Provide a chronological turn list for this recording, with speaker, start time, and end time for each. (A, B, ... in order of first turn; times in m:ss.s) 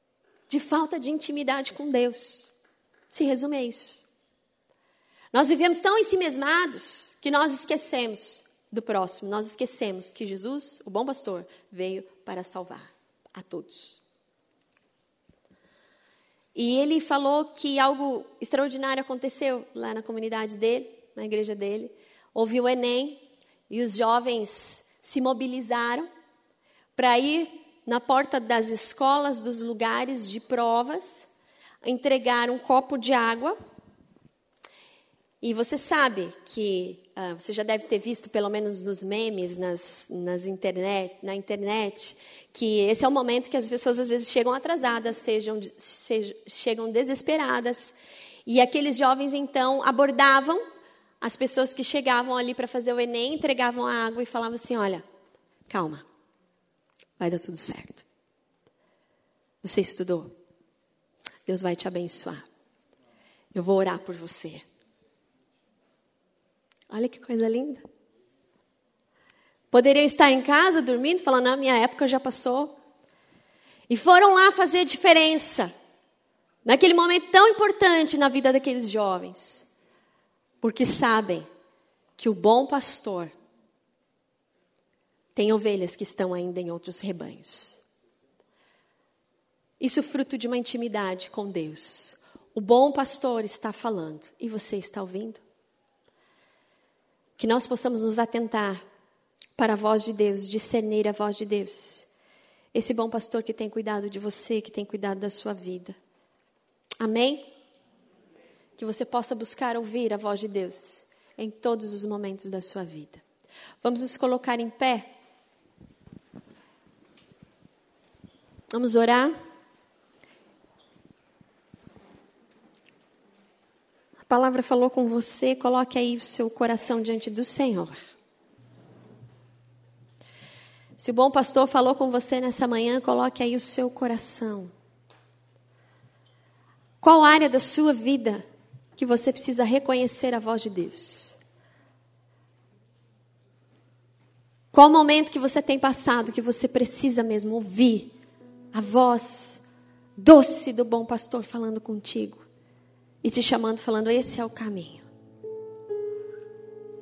0:00.5-0:02.5 A
0:03.1-0:04.0 A
0:05.3-0:14.0 A
0:16.5-0:26.1 A
0:26.9-0:31.3 A
0:31.8-0:33.6 A
0:35.4-0:47.9 A
0:48.4-0:50.6 A
0:51.2-0:55.0 A
0:55.7-0:56.0 A
0:57.2-0:58.0 A
0:59.6-1:00.3 A
1:01.4-1:02.4 A
1:03.5-1:04.6 A
1:06.9-1:07.8 A
1:09.7-1:12.7 A
1:13.9-1:15.7 A
1:16.6-1:19.6 A
1:20.6-1:21.5 A
1:22.2-1:23.3 A
1:25.3-1:27.8 A
1:29.8-1:35.4 A
1:37.4-1:38.8 A
1:39.6-1:42.1 A
1:42.7-1:46.0 A
1:47.0-1:47.4 A
1:48.8-1:53.2 A
1:53.8-1:55.1 A
1:58.7-1:59.3 A
2:04.3-2:08.0 A
2:11.0-2:14.7 A
2:17.0-2:18.4 A
2:19.0-2:21.4 A
2:24.7-2:28.1 A
2:28.7-2:29.6 A
2:30.2-2:32.4 A
2:33.2-2:35.0 A